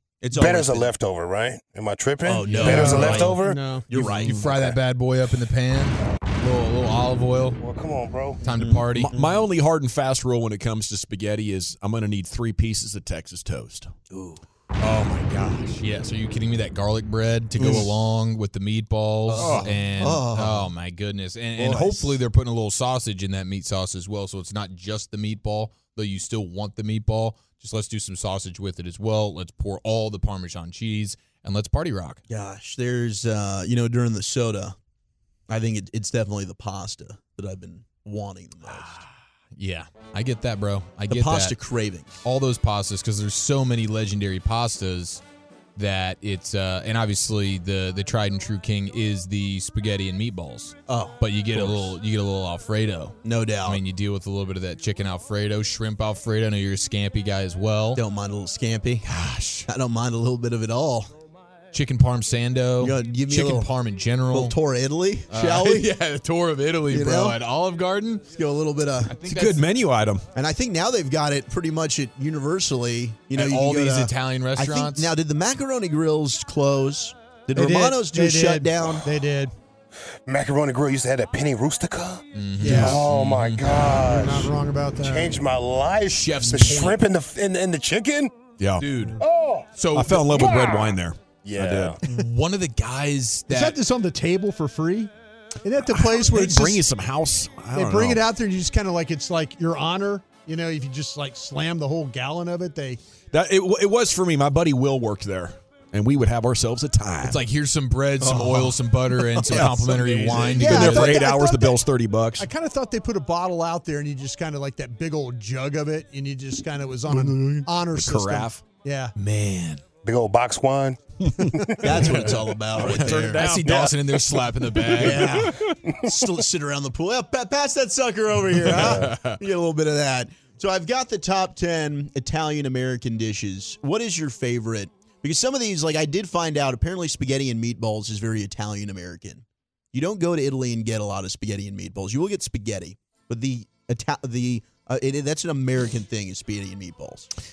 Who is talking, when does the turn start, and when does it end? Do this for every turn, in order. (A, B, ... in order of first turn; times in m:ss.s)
0:00.2-0:00.9 A
0:00.3-0:03.7 B
0:02.2-0:04.8 A
0:02.4-0:03.4 C
0:02.6-0:03.9 D
0:03.9-0:07.6 C
0:07.6-0:08.4 B
0:08.4-0:09.1 C
0:08.6-0:09.4 A
0:08.9-0:13.9 E
0:14.1-0:14.4 A
0:14.8-0:32.2 C
0:17.6-0:17.9 A
0:19.3-0:20.7 A
0:19.4-0:19.8 E
0:21.6-0:22.2 A
0:32.3-0:34.8 A
0:35.5-0:39.0 A
0:38.7-0:41.6 C
0:41.1-0:42.2 A
0:42.2-0:45.2 C
0:45.8-0:58.0 C
0:50.9-0:52.0 A
0:53.2-0:53.8 A
0:58.0-0:59.1 A
0:59.0-0:59.7 C
0:59.7-1:01.1 A
1:01.7-1:04.6 C
1:02.8-1:03.7 A
1:04.3-1:05.9 A
1:05.3-1:08.3 C
1:06.9-1:07.4 A
1:08.3-1:09.2 A
1:09.1-1:09.7 C
1:09.2-1:10.3 E
1:10.4-1:19.0 A
1:13.3-1:15.1 C
1:17.6-1:19.5 D
1:20.3-1:28.3 B
1:22.3-1:23.9 C
1:22.6-1:23.0 D
1:23.9-1:25.5 D
1:26.0-1:27.0 C
1:28.6-1:28.9 E
1:28.8-1:29.2 C
1:29.2-1:29.7 B
1:29.8-1:30.3 C
1:29.9-1:32.0 E
1:30.2-1:32.0 B
1:32.0-1:33.8 C
1:33.5-1:35.1 D
1:35.6-1:36.8 D
1:35.9-1:38.2 E
1:37.7-1:43.0 D
1:43.3-1:47.4 E
1:47.2-1:51.2 C
1:48.2-1:51.1 A
1:49.6-1:52.5 E
1:50.6-1:51.8 D
1:52.4-1:59.1 D
1:57.1-1:58.6 E
1:59.2-1:59.8 C
2:00.0-2:01.8 B
2:01.8-2:03.6 A
2:01.9-2:05.6 C
2:02.8-2:05.4 E
2:03.6-2:03.9 B
2:04.9-2:27.3 A
2:08.6-2:09.4 C
2:08.8-2:09.1 B